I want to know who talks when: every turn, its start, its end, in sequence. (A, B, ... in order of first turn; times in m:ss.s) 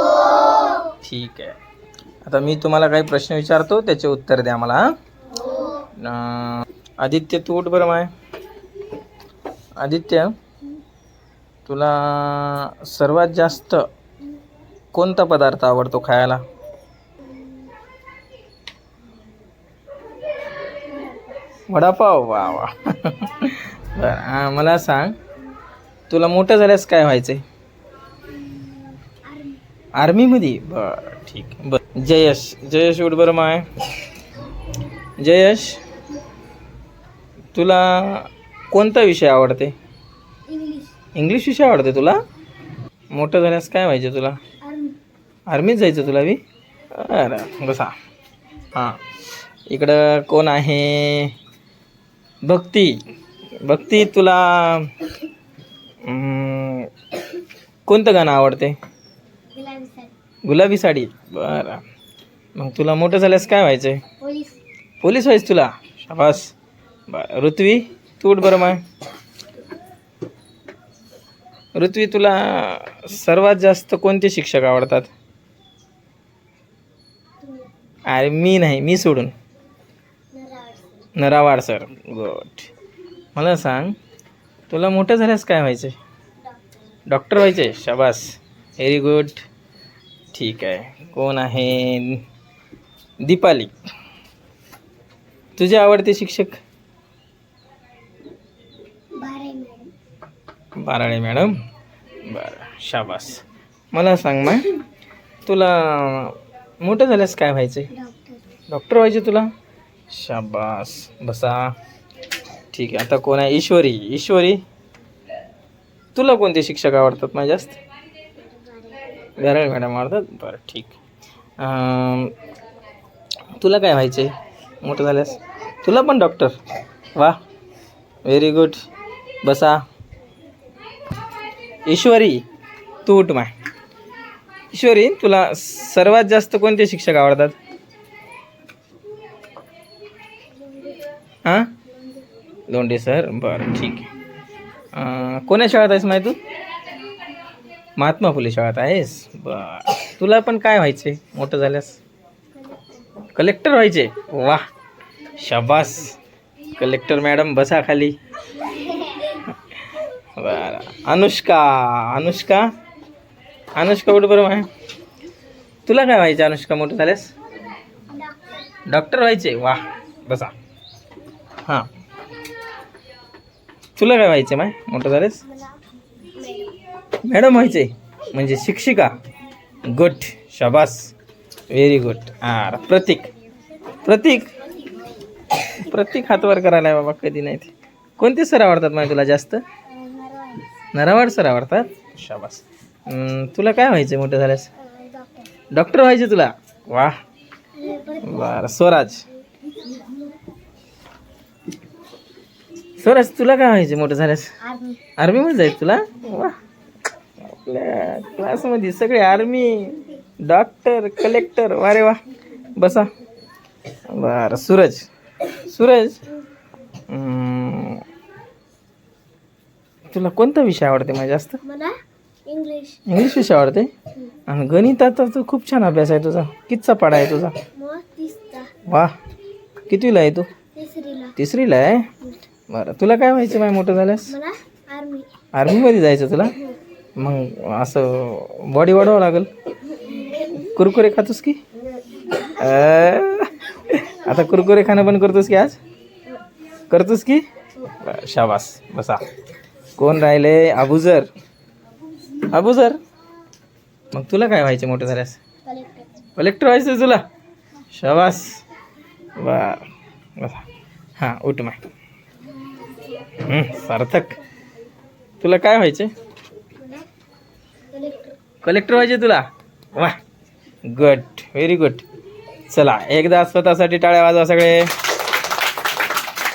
0:01.0-0:01.5 A
0:02.2-0:04.8 A
0:05.9-0:08.1 A
0:09.8-0:10.3 A
0:11.7-0:13.8 A
0:14.9-0:16.4 A
0:20.8-0:21.4 B
0:21.7-0:25.2 A
0:26.1-0:27.4 A
0:28.3-0:29.6 B
0:30.0-0:33.7 A
0:35.2-0:35.8 A
0:37.5-0:39.7 A
0:40.5-0:41.0 B
0:41.1-0:42.2 A
0:43.1-0:44.4 A
0:44.6-0:45.0 B
0:45.5-0:46.4 A
0:46.9-0:48.0 A
0:48.7-0:49.0 A
0:49.7-0:51.3 A
0:52.4-0:53.0 A
0:53.6-0:54.9 A
0:56.0-0:56.9 A
0:57.9-0:58.8 A
0:59.5-1:00.1 B
1:00.5-1:01.8 A
1:02.6-1:04.0 A
1:04.2-1:04.6 B
1:05.0-1:06.5 A
1:07.1-1:08.8 A
1:11.8-1:15.1 A
1:17.4-1:17.7 B
1:18.1-1:19.3 A
1:20.3-1:21.1 B
1:21.2-1:22.7 A
1:23.4-1:24.0 A
1:24.7-1:26.0 A
1:27.1-1:29.4 A
1:30.3-1:32.2 A
1:33.2-1:33.7 A
1:35.6-1:36.6 A
1:39.2-1:39.9 B
1:40.8-1:41.6 A
1:42.2-1:44.8 A
1:45.4-1:47.9 A
1:47.9-1:48.4 B
1:48.7-1:49.5 A
1:50.1-1:51.7 A
1:52.7-1:54.6 A
1:56.2-1:57.8 A
1:58.4-1:59.1 B
1:59.4-2:01.0 A
2:01.6-2:02.4 A
2:03.6-2:06.6 A
2:08.2-2:08.8 A
2:09.4-2:09.8 A
2:11.8-2:12.4 A
2:13.0-2:13.5 A
2:14.7-2:17.6 A
2:20.6-2:21.0 B
2:21.4-2:21.8 A
2:22.7-2:24.1 A
2:24.9-2:26.4 A
2:28.0-2:32.0 A
2:32.6-2:32.9 B
2:33.3-2:34.6 A
2:35.4-2:36.2 A
2:36.8-2:38.1 A
2:38.8-2:39.3 B
2:40.4-2:42.7 A
2:43.8-2:44.7 A
2:45.8-2:47.3 A
2:48.9-2:50.5 A
2:54.0-2:55.4 A
2:55.5-2:55.8 B
2:56.3-2:56.8 B
2:57.2-2:59.2 A
2:59.9-3:01.1 A
3:01.7-3:03.3 A
3:04.0-3:04.5 A
3:05.6-3:09.6 A
3:09.9-3:10.7 B
3:10.9-3:14.7 A
3:14.8-3:15.5 B
3:15.7-3:17.2 A
3:17.8-3:18.6 B
3:18.2-3:19.2 A
3:19.8-3:20.3 B
3:23.0-3:24.6 A
3:24.7-3:25.0 B
3:25.2-3:26.6 A
3:27.4-3:32.2 A
3:32.8-3:33.1 A
3:34.1-3:35.1 A
3:35.7-3:36.2 A
3:37.1-3:38.0 A
3:40.1-3:41.6 A
3:41.6-3:41.9 B
3:42.5-3:43.0 B
3:43.1-3:43.9 A
3:44.5-3:47.5 A
3:47.8-3:48.7 B
3:48.9-3:49.1 A
3:49.9-3:50.5 A
3:50.8-3:51.4 B
3:51.4-3:52.1 A
3:52.7-3:54.4 A
3:54.3-3:55.3 B
3:55.5-3:56.6 A
3:57.2-3:59.5 A
4:00.0-4:00.5 B
4:00.6-4:01.6 A
4:02.4-4:05.8 A
4:06.9-4:07.4 A
4:08.0-4:09.2 A
4:10.0-4:11.3 A
4:12.4-4:13.0 A
4:14.1-4:15.4 A
4:15.6-4:16.2 B
4:16.4-4:17.2 A
4:17.9-4:18.6 A
4:19.4-4:20.7 A
4:21.2-4:21.8 A
4:22.8-4:23.2 B
4:23.4-4:24.4 A
4:25.4-4:26.1 A
4:26.8-4:27.1 B
4:27.9-4:28.4 B
4:28.6-4:30.2 A
4:30.9-4:32.0 A
4:32.7-4:34.9 A